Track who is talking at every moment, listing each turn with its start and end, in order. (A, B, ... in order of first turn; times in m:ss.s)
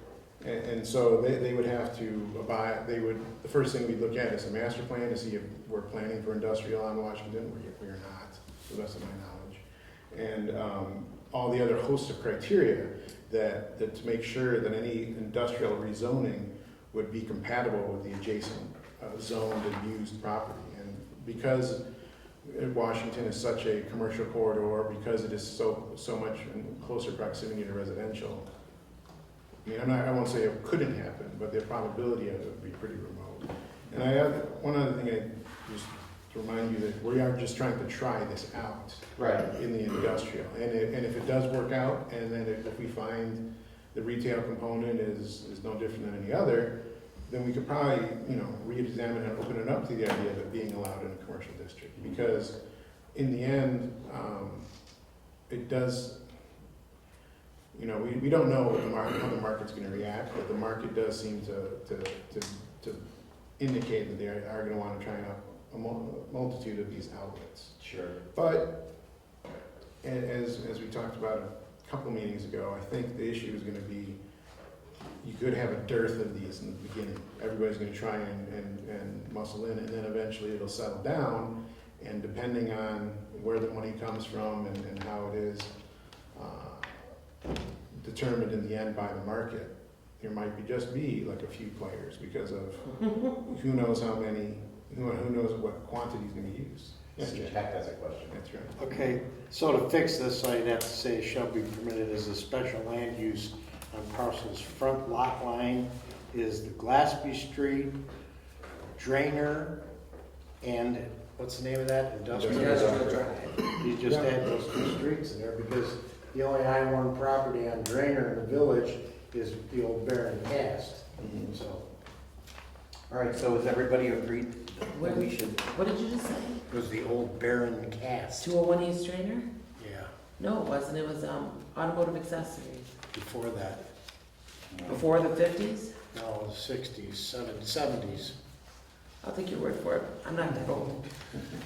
0:00.4-0:21.8 A
0:22.4-0:28.5 A
0:29.6-0:43.4 A
0:39.2-0:39.5 B
0:43.9-0:46.7 A
0:47.3-0:52.6 A
0:53.1-0:54.7 A
0:55.5-0:56.2 A
0:57.7-1:03.0 A
1:03.6-1:07.8 A
1:07.8-1:08.2 B
1:08.3-1:08.7 A
1:10.0-1:14.2 A
1:15.2-1:25.7 A
1:26.3-1:26.9 A
1:27.9-1:37.6 A
1:37.2-1:38.3 B
1:38.3-1:38.7 A
1:38.8-1:48.0 C
1:49.0-1:49.8 C
1:50.6-1:53.2 C
1:52.3-1:53.1 A
1:52.4-1:53.6 D
1:53.7-2:01.8 C
1:54.0-1:54.4 A
2:01.2-2:01.5 A
2:03.1-2:05.6 B
2:04.9-2:06.6 D
2:06.7-2:08.5 C
2:08.4-2:09.5 D
2:09.8-2:10.1 C
2:10.4-2:12.9 D
2:13.1-2:13.9 C
2:14.7-2:15.0 B
2:14.8-2:15.9 D
2:16.1-2:18.3 C
2:19.2-2:21.0 D